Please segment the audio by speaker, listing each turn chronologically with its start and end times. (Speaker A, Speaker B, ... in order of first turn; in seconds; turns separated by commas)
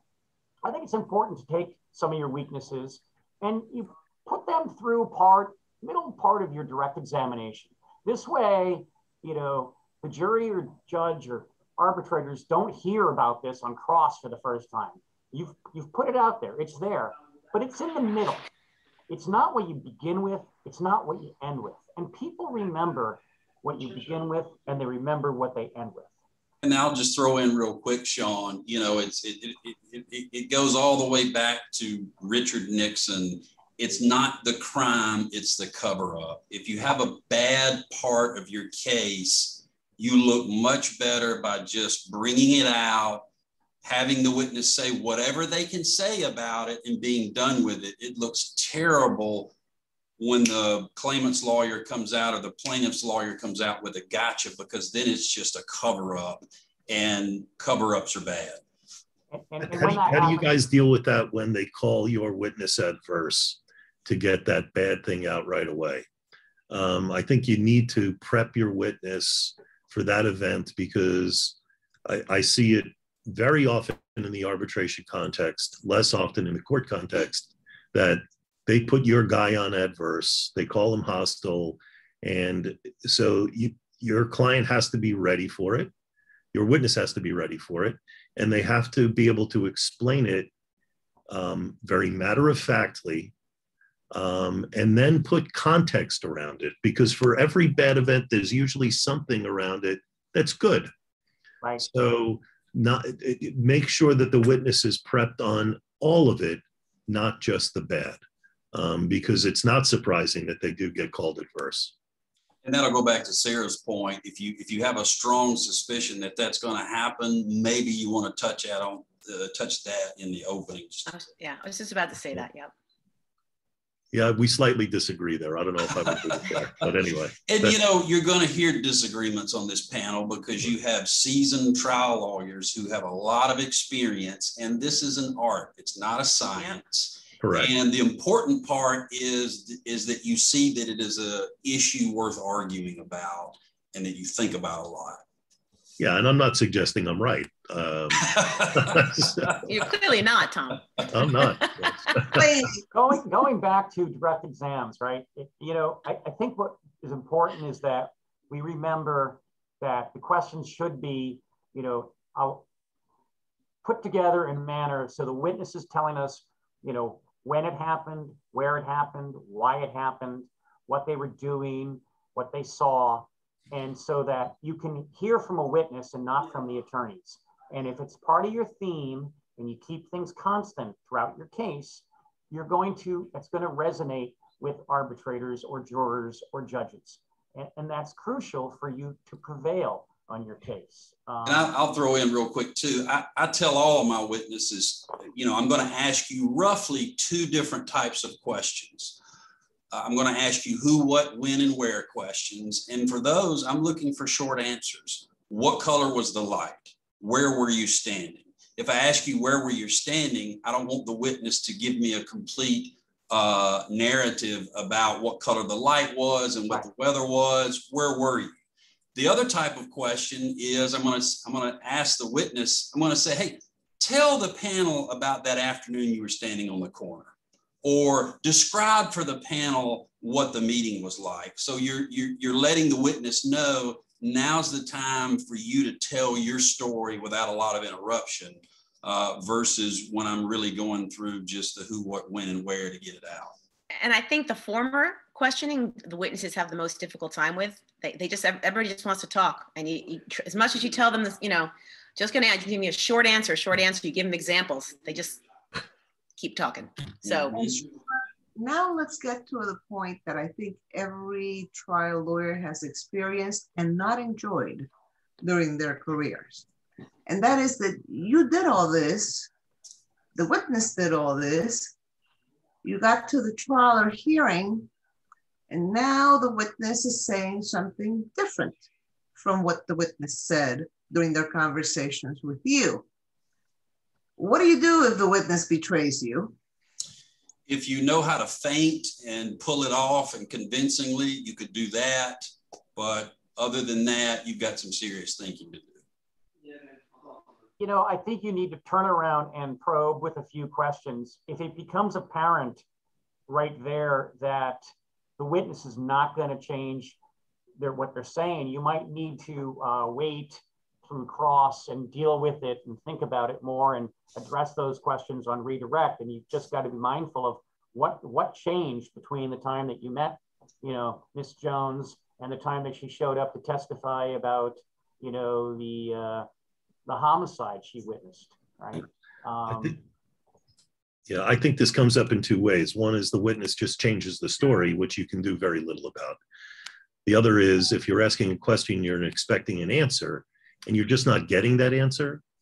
Speaker A: 0.6-18.4, Speaker A: 19.1-26.1, Speaker B: 26.6-43.2, Speaker B: 43.8-49.5, Speaker B: 50.2-58.6, Speaker A: 59.3-60.6, Speaker C: 59.6-66.0, Speaker C: 66.7-85.9, Speaker C: 86.5-90.5, Speaker C: 91.3-93.3, Speaker C: 94.1-100.9, Speaker C: 101.8-108.2, Speaker C: 108.7-111.9, Speaker B: 112.6-121.1, Speaker D: 121.1-122.7, Speaker C: 124.1-127.8, Speaker B: 126.0-126.7, Speaker B: 127.5-145.2, Speaker C: 137.4-137.7, Speaker C: 146.0-149.5, Speaker B: 148.2-149.6, Speaker D: 149.6-152.1, Speaker C: 151.1-152.4, Speaker E: 152.3-152.8, Speaker A: 152.9-162.6, Speaker A: 163.8-191.7, Speaker B: 191.4-199.2, Speaker B: 199.9-218.6, Speaker B: 219.1-243.5, Speaker D: 244.0-255.4, Speaker D: 256.4-257.6, Speaker B: 257.4-257.7, Speaker E: 257.5-258.0, Speaker E: 258.6-264.9, Speaker E: 265.4-266.6, Speaker E: 267.2-269.5, Speaker E: 270.3-271.9, Speaker E: 272.8-274.9, Speaker E: 275.7-283.0, Speaker E: 284.4-286.5, Speaker B: 287.7-296.0, Speaker A: 297.8-302.8, Speaker A: 303.5-307.2, Speaker A: 307.8-326.5, Speaker A: 327.1-330.0, Speaker C: 329.7-329.9, Speaker C: 331.3-336.4, Speaker C: 337.2-342.4